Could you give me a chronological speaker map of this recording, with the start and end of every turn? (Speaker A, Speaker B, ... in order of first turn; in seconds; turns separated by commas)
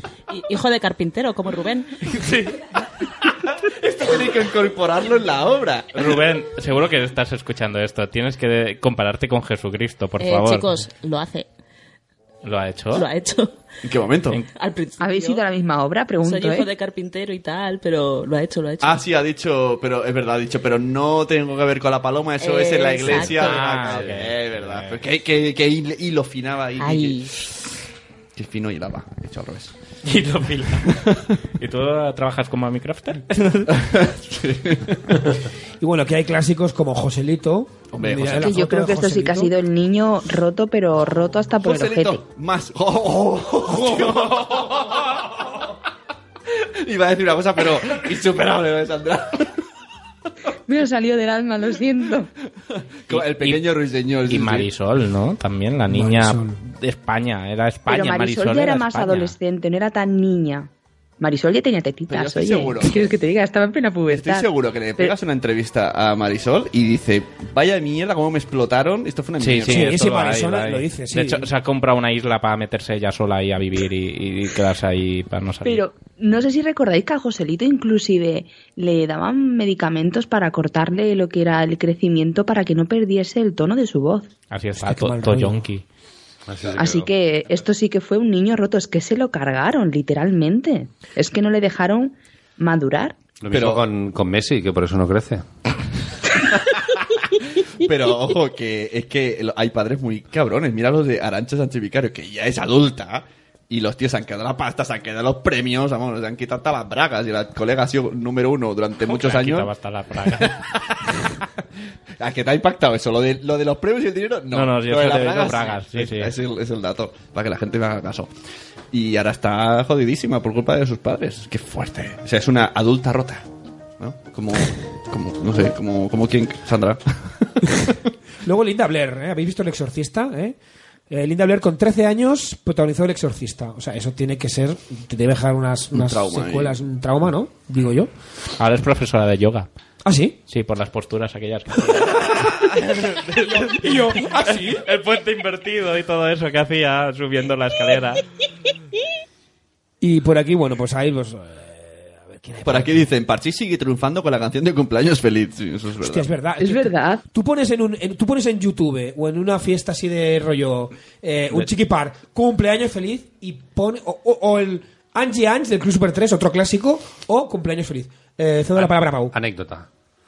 Speaker A: 0.3-1.9, Speaker B: 2.2-2.5, Speaker C: 3.7-6.2, Speaker B: 5.9-10.7, Speaker A: 10.2-11.5, Speaker B: 12.4-13.0, Speaker A: 12.9-13.6, Speaker C: 13.8-14.4, Speaker A: 14.5-15.4, Speaker D: 15.0-16.7, Speaker A: 16.2-19.0, Speaker C: 18.8-27.6, Speaker A: 22.4-23.7, Speaker B: 23.1-25.0, Speaker A: 26.8-27.3, Speaker C: 28.3-29.7, Speaker B: 30.0-30.9, Speaker C: 30.9-31.1, Speaker B: 31.6-33.6, Speaker C: 33.7-35.1, Speaker E: 35.8-39.5, Speaker C: 37.9-38.6, Speaker D: 38.3-42.2, Speaker C: 41.6-45.6, Speaker E: 43.7-44.1, Speaker C: 46.5-49.5, Speaker D: 50.7-52.3, Speaker C: 53.1-54.7, Speaker B: 53.1-53.6, Speaker B: 54.3-59.4, Speaker E: 55.9-56.6, Speaker D: 57.9-60.7, Speaker D: 61.2-65.1, Speaker C: 62.1-63.1, Speaker C: 64.1-69.9, Speaker B: 69.4-75.8, Speaker E: 69.6-71.5, Speaker D: 75.6-84.3, Speaker B: 84.5-85.8, Speaker E: 84.8-85.6, Speaker F: 86.5-87.1, Speaker D: 86.8-93.2, Speaker F: 93.4-95.4, Speaker C: 93.5-93.8, Speaker C: 97.8-109.7, Speaker B: 109.0-110.5, Speaker C: 110.3-111.2, Speaker C: 112.2-118.3, Speaker B: 114.5-116.3, Speaker C: 118.9-123.4, Speaker C: 124.0-127.7, Speaker E: 128.4-130.6, Speaker E: 131.1-138.1, Speaker C: 135.9-136.8, Speaker B: 138.6-139.7, Speaker E: 140.0-140.4, Speaker B: 140.5-142.6, Speaker E: 141.9-142.6, Speaker C: 142.7-143.4, Speaker B: 143.2-148.2, Speaker E: 143.5-144.8, Speaker E: 150.0-153.1, Speaker C: 152.6-156.3, Speaker E: 156.0-169.3, Speaker D: 156.6-157.2, Speaker F: 168.8-169.9